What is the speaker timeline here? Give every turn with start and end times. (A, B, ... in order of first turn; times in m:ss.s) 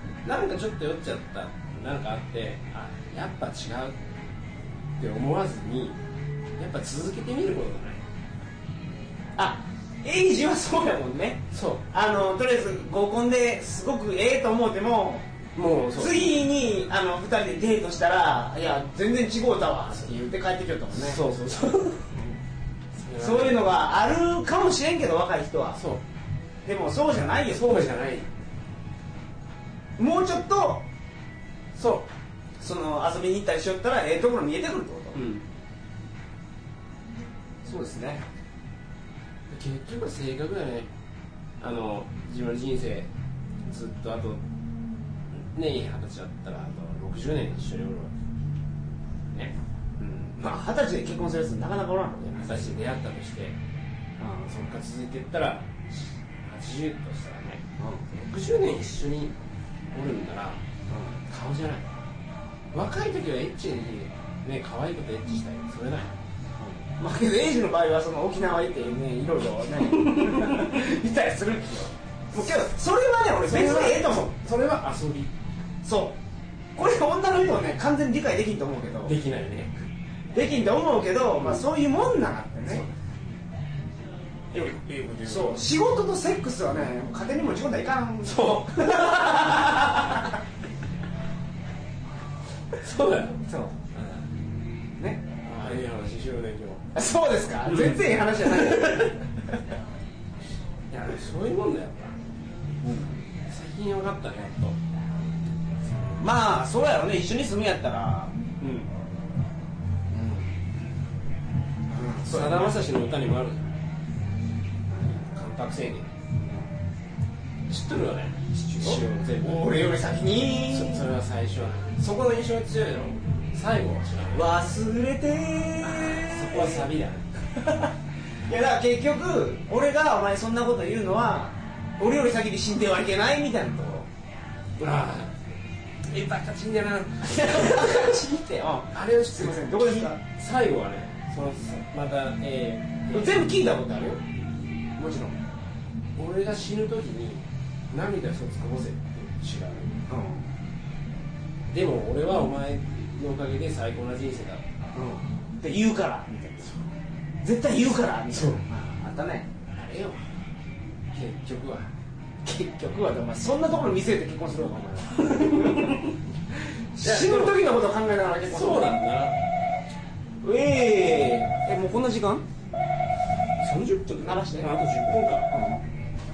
0:00.2-0:04.0 A
0:05.0-0:06.0 A
0:06.6-0:08.0 A
0:09.4-0:15.2 B
0:11.5-0:11.8 A
0:15.5-0:16.3 A
0:15.9-0:21.2 B
0:20.9-0:22.1 A
0:23.0-0:23.7 A
0:23.1-0:25.8 B
0:25.8-0:26.0 A
0:26.6-0:27.9 B
0:27.4-0:28.3 A
0:30.0-0:30.8 B
0:31.7-0:32.1 A
0:32.6-0:35.2 B
0:35.1-0:35.4 A
0:37.6-0:38.2 B
0:39.5-0:40.9 A
0:41.6-0:43.1 A
0:43.6-0:44.4 A
0:45.3-0:48.1 A
0:50.0-0:52.7 B
0:52.3-0:53.6 A
0:54.2-0:54.5 B
0:54.4-0:59.3 A
0:57.8-0:58.0 B
0:59.9-1:00.6 A
1:00.9-1:01.2 B
1:01.3-1:01.9 A
1:02.7-1:06.1 A
1:06.6-1:14.3 B
1:10.0-1:10.6 A
1:13.4-1:15.3 A
1:15.8-1:16.2 B
1:16.8-1:19.2 B
1:19.0-1:19.7 A
1:20.3-1:22.8 B
1:22.7-1:22.9 A
1:24.5-1:25.7 A
1:25.2-1:30.4 B
1:28.2-1:30.2 A
1:32.8-1:34.3 A
1:33.5-1:33.8 B
1:35.4-1:36.8 A
1:36.9-1:39.6 B
1:37.6-1:39.1 A
1:40.9-1:42.2 A
1:42.8-1:43.2 B
1:43.5-1:44.8 A
1:46.0-1:48.3 B
1:48.6-1:48.8 A
1:50.1-1:50.5 B
1:51.9-1:52.8 B
1:52.2-1:53.7 A
1:55.0-1:56.1 A
1:57.7-1:59.8 A
1:58.5-2:01.0 B
2:00.6-2:04.5 A
2:04.3-2:06.9 B
2:05.8-2:07.3 A
2:07.6-2:07.9 B
2:08.5-2:14.1 B
2:14.8-2:15.4 A
2:16.1-2:18.2 A
2:17.2-2:20.2 B
2:18.9-2:23.4 A
2:23.1-2:24.2 B
2:25.0-2:25.4 B
2:26.2-2:30.0 A
2:30.1-2:30.5 B
2:31.7-2:34.6 A
2:34.9-2:36.7 B
2:37.4-2:39.5 B
2:38.3-2:38.6 A
2:39.7-2:40.2 A
2:41.1-2:41.9 A
2:42.4-2:46.1 B
2:45.2-2:46.1 A
2:46.9-2:49.0 B
2:47.0-2:47.6 A
2:48.4-2:49.4 A
2:50.4-2:52.4 B
2:53.6-2:55.5 A
2:54.2-2:54.7 B
2:55.5-2:55.8 B